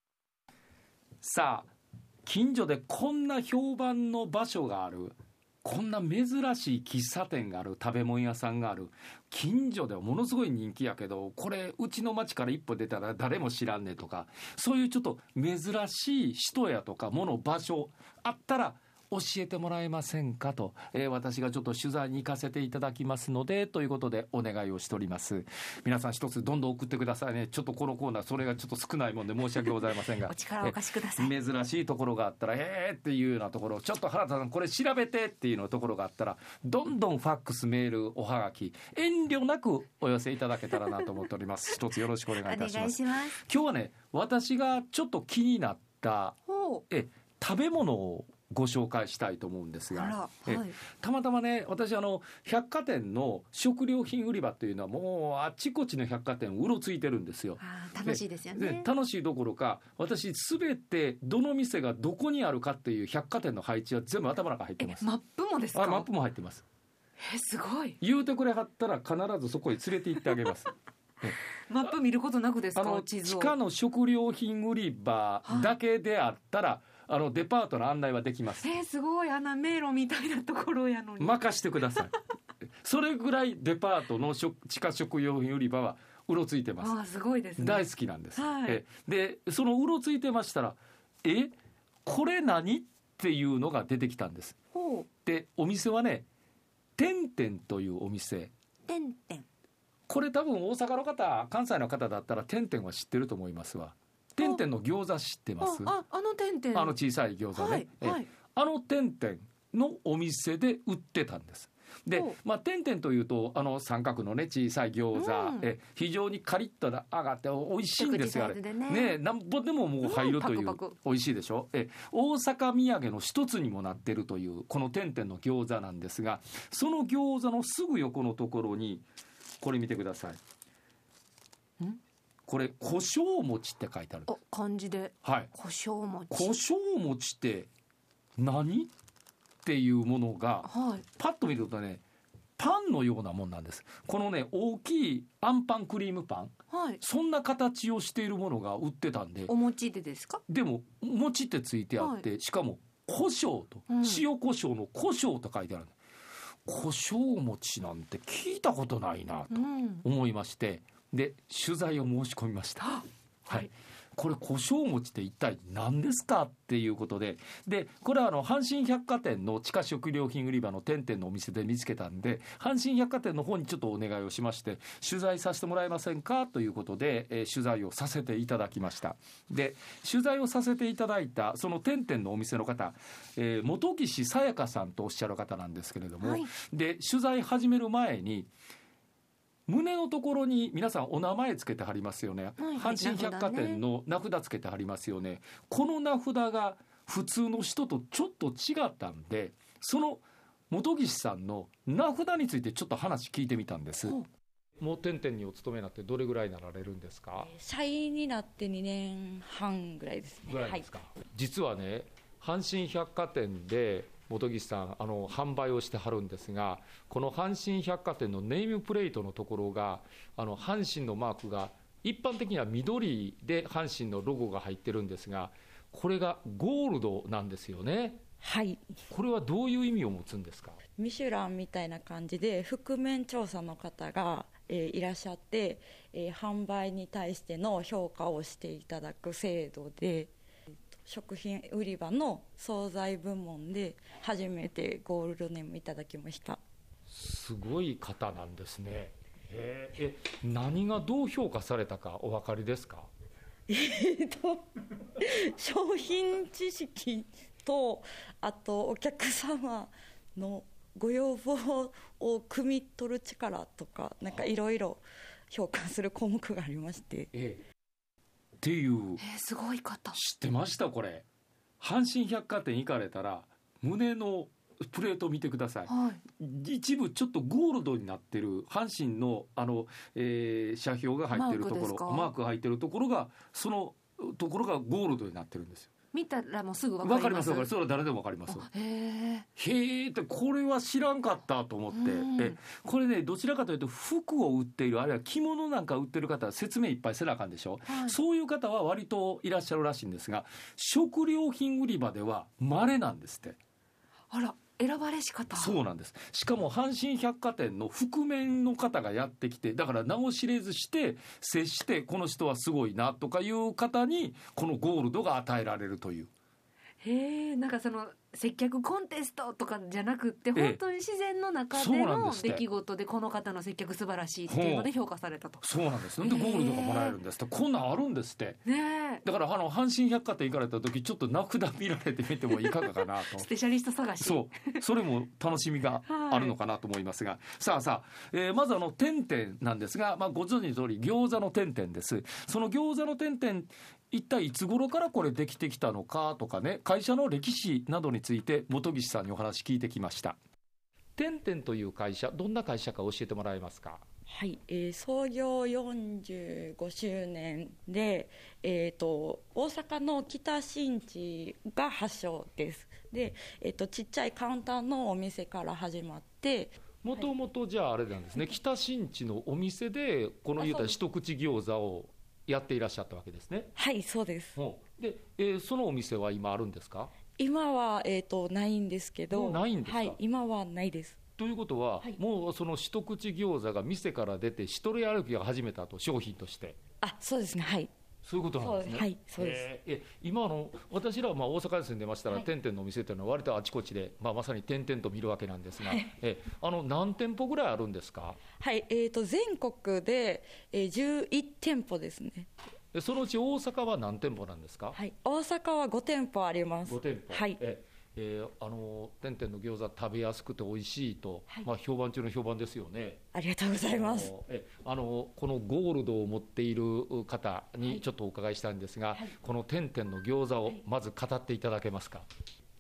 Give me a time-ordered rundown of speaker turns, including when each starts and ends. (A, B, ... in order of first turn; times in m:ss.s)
0:01.2-0:01.7 A
0:02.3-0:46.4 A
0:29.8-0:31.4 B
0:42.3-0:43.4 B
0:46.5-0:46.8 B
0:46.9-1:05.1 A
0:49.9-0:50.8 B
0:57.6-0:58.9 B
1:04.8-1:06.1 B
1:05.7-1:06.6 A
1:07.2-1:08.0 B
1:08.0-1:11.4 A
1:11.7-1:13.5 B
1:12.8-1:18.7 A
1:15.5-1:15.8 B
1:18.6-1:22.2 B
1:21.2-1:22.1 A
1:22.8-1:27.0 A
1:26.8-1:28.8 B
1:27.6-1:31.5 A
1:32.0-1:34.6 A
1:34.7-1:35.1 B
1:35.2-1:36.3 A
1:37.0-1:38.5 A
1:38.9-1:39.5 B
1:40.1-1:45.9 A
1:45.6-1:47.0 B
1:46.7-2:09.1 A
1:47.5-1:48.3 B
1:55.1-1:55.7 B
1:58.0-1:59.2 B
2:00.0-2:01.0 B
2:09.6-2:10.4 A
2:12.5-2:14.3 A
2:14.3-2:16.5 B
2:15.2-2:15.5 A
2:16.3-2:17.7 A
2:18.4-2:18.9 A
2:19.6-2:22.0 A
2:20.6-2:21.0 B
2:22.6-2:29.5 A
2:26.7-2:27.0 B
2:29.5-2:30.4 B
2:30.5-2:36.0 A
2:32.0-2:32.2 B
2:33.9-2:34.2 B
2:36.7-2:42.9 A
2:39.5-2:40.0 B
2:42.8-2:43.7 B
2:43.5-3:08.5 A
3:06.2-3:06.5 B
3:09.7-3:24.2 A
3:12.6-3:13.8 B
3:24.8-3:27.5 A
3:27.4-3:30.9 C
3:30.5-3:48.2 A
3:48.4-3:48.8 C
3:49.1-3:50.8 A
3:51.0-4:00.3 C
4:00.9-4:06.6 C
4:07.1-4:13.1 A
4:13.7-4:14.6 C
4:15.2-4:27.3 C
4:27.3-4:27.6 A
4:28.6-4:29.2 A
4:29.2-4:30.2 B
4:30.1-4:31.3 A
4:31.8-4:45.9 A
4:35.9-4:36.2 B
4:41.3-4:42.3 B
4:46.1-4:47.7 B
4:47.0-4:48.7 A
4:48.5-4:49.5 B
4:49.6-5:03.6 A
4:51.9-4:52.6 B
4:57.9-4:58.2 B
5:04.3-5:05.8 B
5:05.6-5:16.3 A
5:17.0-5:25.6 B
5:20.6-5:20.8 A
5:21.7-5:22.6 A
5:24.5-5:24.9 A
5:25.6-5:28.6 A
5:26.2-5:27.2 B
5:28.7-5:29.2 B
5:29.2-5:33.5 A
5:32.6-5:34.8 B
5:34.2-5:50.4 A
5:36.1-5:36.5 B
5:51.2-5:54.0 A
5:54.3-6:06.8 C
6:07.0-6:13.7 A
6:10.6-6:11.0 C
6:13.8-6:14.6 C
6:14.6-6:17.1 A
6:17.4-6:21.2 C
6:19.3-6:20.2 A
6:21.4-6:26.8 A
6:27.0-6:27.9 C
6:28.2-6:38.4 A
6:28.6-6:29.7 C
6:35.8-6:36.1 C
6:38.6-6:42.5 C
6:42.9-6:45.0 A
6:45.0-6:47.6 C
6:46.9-6:53.2 A
6:53.3-6:54.3 C
6:53.8-7:02.3 A